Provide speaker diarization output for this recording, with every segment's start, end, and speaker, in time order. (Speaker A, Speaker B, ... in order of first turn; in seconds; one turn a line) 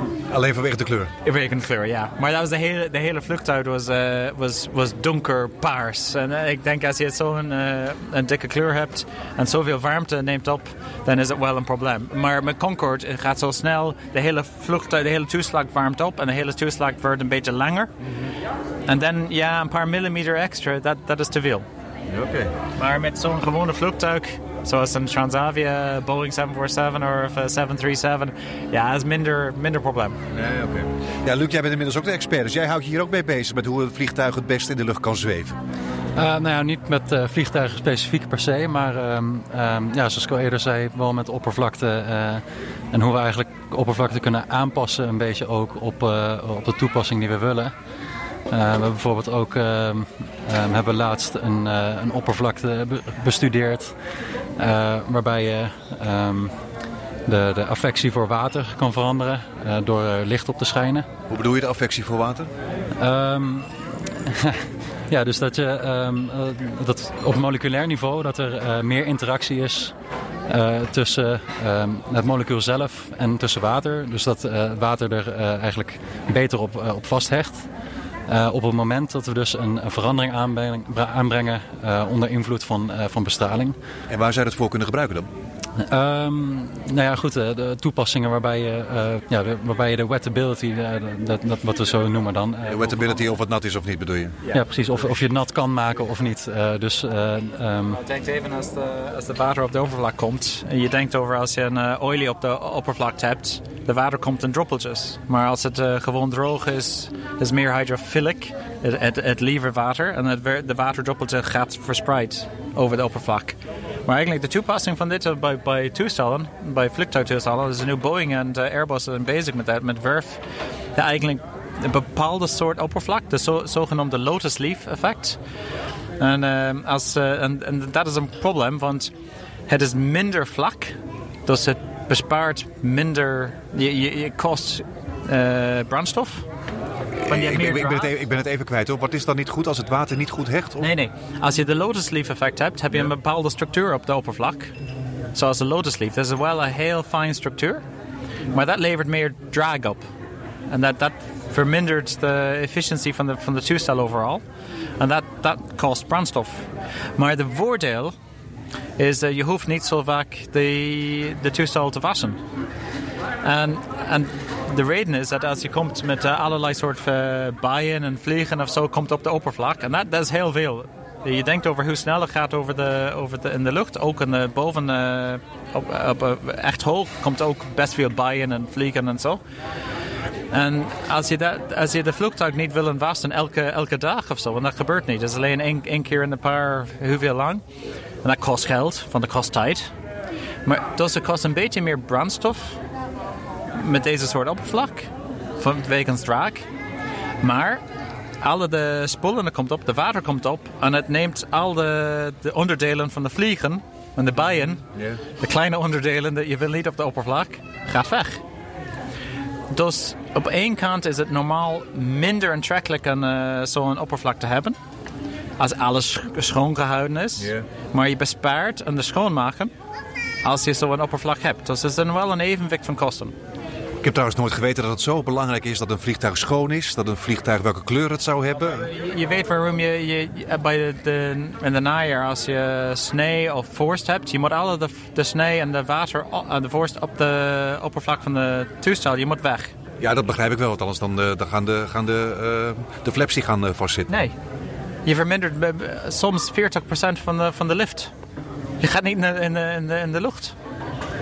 Speaker A: 0.3-1.1
Speaker B: 1.2-17.9
Speaker B: 18.9-21.7
Speaker A: 22.1-22.5
Speaker B: 22.8-30.2
Speaker A: 30.3-35.6
Speaker C: 36.2-47.7
Speaker C: 48.5-53.9
Speaker C: 54.6-56.5
Speaker C: 57.3-61.1
Speaker A: 61.3-62.5
Speaker C: 63.0-69.9
Speaker C: 70.5-77.7
Speaker C: 78.3-83.8
Speaker A: 84.1-85.3
Speaker C: 85.8-93.2
Speaker A: 92.7-94.4
Speaker C: 94.5-98.0
Speaker B: 97.9-120.4
Speaker B: 121.0-125.4
Speaker B: 126.2-129.1
Speaker B: 129.7-136.5
Speaker A: 137.2-140.9
Speaker B: 137.3-138.2
Speaker B: 140.8-144.7
Speaker B: 145.3-147.8
Speaker B: 148.5-150.1
Speaker B: 150.7-154.4
Speaker B: 155.0-158.2
Speaker B: 159.0-162.4
Speaker B: 163.4-179.4
Speaker B: 180.5-187.6
Speaker B: 188.2-189.9
Speaker B: 190.7-192.8
Speaker B: 193.7-196.7
Speaker B: 197.4-197.8
Speaker B: 198.4-208.4
Speaker B: 209.7-214.8
Speaker B: 215.6-219.7
Speaker B: 220.4-223.3
Speaker A: 224.0-228.9
Speaker B: 228.7-239.7
Speaker A: 240.0-244.1
Speaker B: 244.1-244.3
Speaker B: 245.1-248.1
Speaker B: 248.8-250.6